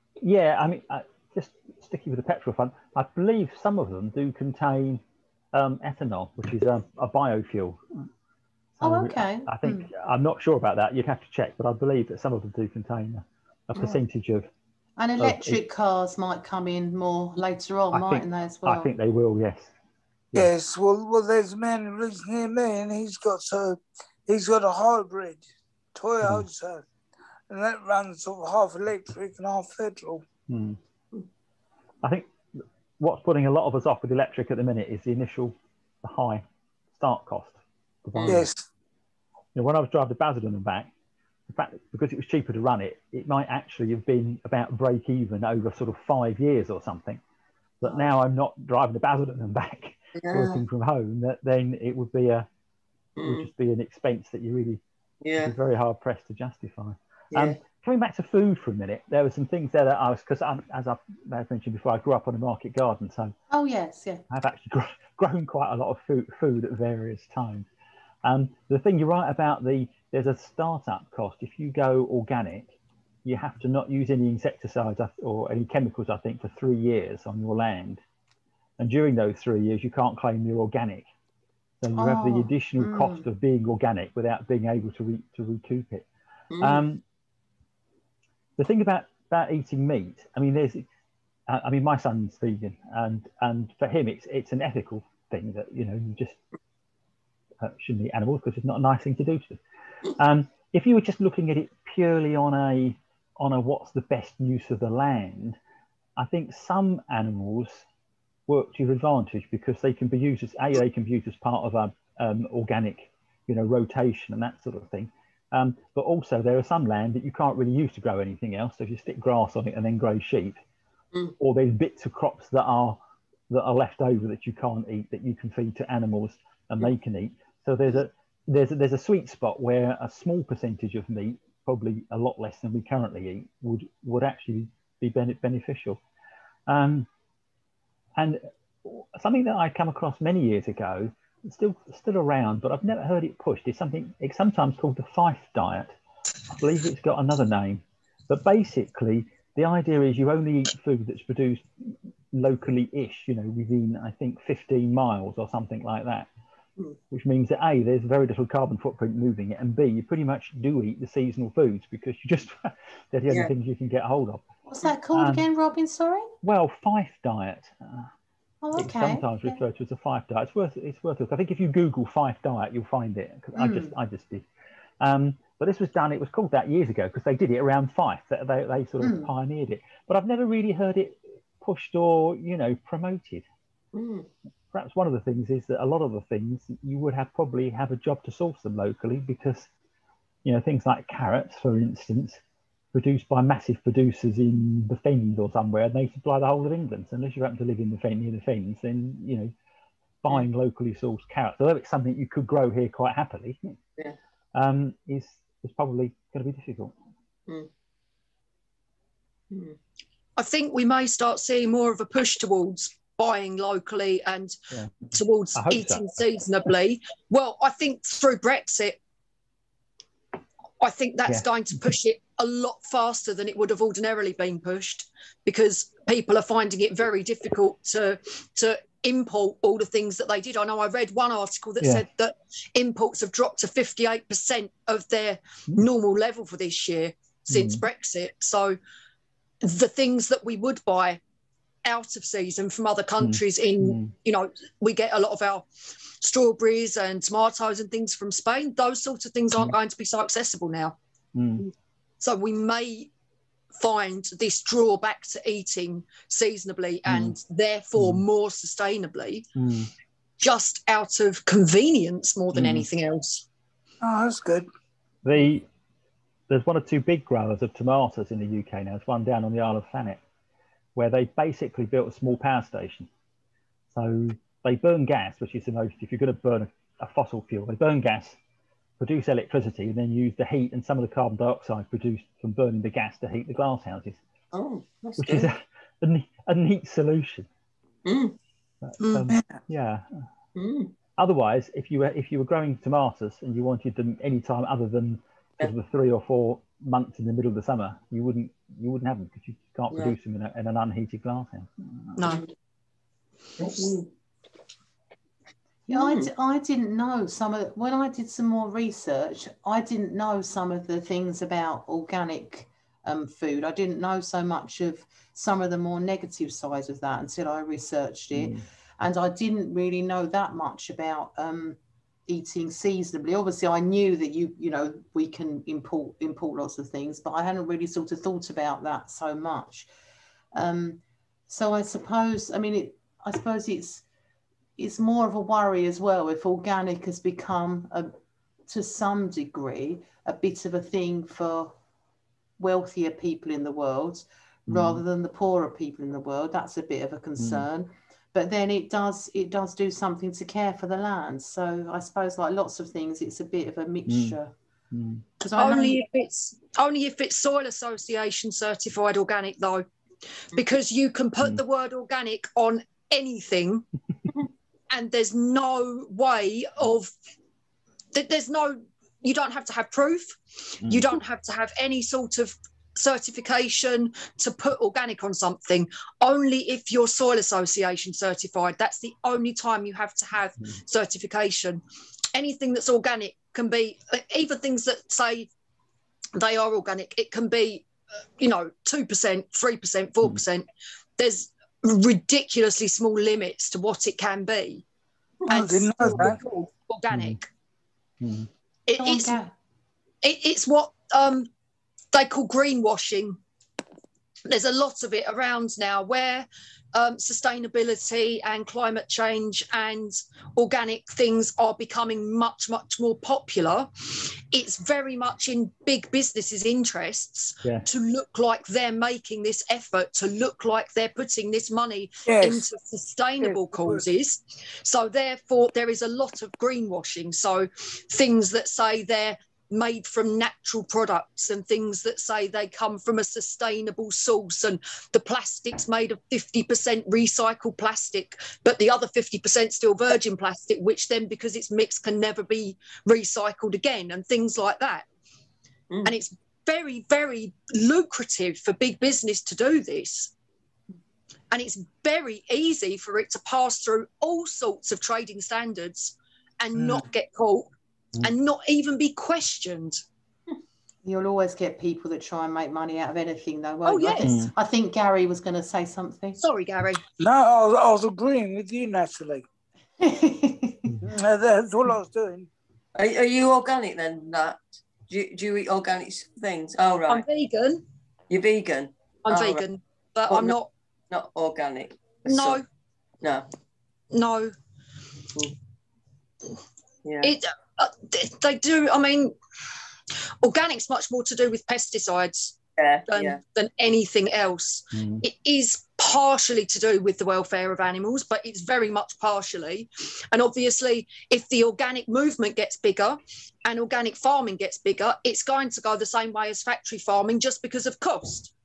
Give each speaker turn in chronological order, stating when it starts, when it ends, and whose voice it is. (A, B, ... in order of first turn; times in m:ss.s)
0:00.2-0:05.0 A
0:05.5-0:07.8 A
0:08.8-0:14.5 A
0:08.8-0:09.9 B
0:15.0-0:18.9 B
0:15.2-0:15.6 A
0:17.9-0:19.7 A
0:20.3-0:26.8 C
0:27.5-0:30.2 C
0:30.5-0:30.8 A
0:32.0-0:32.3 A
0:33.0-0:38.4 A
0:38.2-0:38.5 D
0:38.3-0:38.6 C
0:39.5-0:40.9 A
0:41.5-0:47.2 A
0:47.8-0:52.5 A
0:50.2-0:50.6 D
0:53.2-0:53.5 D
0:53.2-0:54.8 A
0:55.2-0:55.5 D
0:55.4-1:03.3 A
0:57.3-0:57.6 D
1:03.5-1:04.2 B
1:04.3-1:07.7 A
1:08.2-1:12.7 A
1:13.2-1:18.0 A
1:18.8-1:21.1 A
1:21.8-1:26.0 A
1:22.0-1:23.2 B
1:26.5-1:26.8 D
1:26.6-1:27.0 A
1:28.6-1:30.8 A
1:31.5-1:36.4 A
1:37.6-1:39.6 A
1:40.2-1:45.6 A
1:46.2-1:47.8 A
1:48.5-2:00.6 A
2:01.4-2:03.0 A
2:03.5-2:16.0 A
2:16.7-2:17.1 A
2:18.2-2:25.9 A
2:26.5-2:36.3 A
2:37.1-2:44.4 A
2:44.7-2:46.3 B
2:45.1-2:45.4 A
2:46.4-2:48.1 A
2:48.6-2:49.6 B
2:48.8-2:54.4 A
2:53.6-2:53.9 B
2:55.0-3:03.4 A
2:59.0-2:59.3 B
3:03.9-3:04.3 D
3:04.7-3:09.7 A
3:10.4-3:12.4 A
3:12.9-3:19.5 A
3:20.2-3:23.7 A
3:24.5-3:26.9 A
3:29.5-3:29.8 D
3:30.4-3:34.6 E
3:35.1-3:39.0 E
3:35.6-3:36.0 A
3:40.8-3:58.8 E
3:51.8-3:52.0 A
3:57.5-3:57.8 A
3:59.6-4:01.2 E
4:01.8-4:05.6 E
4:03.2-4:04.1 A
4:06.2-4:11.0 E
4:11.3-4:11.7 A
4:12.2-4:13.1 E
4:13.8-4:19.5 E
4:17.0-4:17.3 A
4:18.0-4:18.2 A
4:19.6-4:19.9 A
4:20.4-4:23.4 E
4:22.5-4:22.9 A
4:24.0-4:24.6 C
4:25.2-4:25.7 A
4:26.5-4:30.2 A
4:30.9-4:33.1 A
4:33.9-4:38.4 A
4:39.0-4:44.2 A
4:44.5-4:45.5 D
4:45.2-4:47.5 A
4:48.0-4:48.4 D
4:48.8-4:50.0 A
4:49.0-4:49.3 E
4:50.5-4:50.9 D
4:51.2-5:02.2 A
5:02.2-5:02.4 E
5:03.6-5:04.1 D
5:05.9-5:29.9 B
5:05.9-5:06.3 D
5:18.3-5:18.6 A
5:30.5-5:34.0 B
5:34.8-5:38.1 B
5:38.7-5:41.7 B
5:42.6-5:54.5 B
5:44.7-5:45.0 A
5:47.4-5:47.6 A
5:54.1-5:54.4 A
5:54.9-5:55.2 A
5:55.4-5:56.0 B
5:55.6-5:59.9 E
6:00.5-6:03.9 E
6:04.9-6:07.1 E
6:08.1-6:21.8 E
6:22.3-6:25.5 E
6:26.4-6:30.6 E
6:31.2-6:34.8 E
6:35.5-6:37.5 E
6:35.5-6:36.4 C
6:37.1-6:37.4 A
6:38.2-6:38.5 A
6:38.9-6:39.4 E
6:38.9-6:39.5 B
6:40.2-6:41.5 E
6:42.1-6:43.4 E
6:44.4-7:25.0 E
7:02.2-7:02.7 C
7:03.4-7:04.0 C
7:26.0-7:30.3 E
7:31.5-7:37.7 E
7:38.2-7:40.0 E
7:41.0-7:46.4 B
7:43.8-7:44.3 E
7:44.2-7:44.5 A
7:46.4-7:47.0 E
7:47.2-7:49.4 C
7:50.0-7:50.9 B
7:51.0-7:52.5 C
7:53.0-7:57.2 D
7:57.1-7:57.8 E
7:58.3-7:59.6 D
7:59.2-8:00.7 E
8:00.3-8:00.6 D
8:01.1-8:02.6 D
8:02.2-8:02.6 E
8:03.2-8:03.5 D
8:04.1-8:04.5 E
8:07.0-8:07.3 D
8:07.2-8:09.3 E
8:10.4-8:12.6 E
8:12.8-8:13.4 D
8:13.1-8:28.5 E
8:14.9-8:15.2 A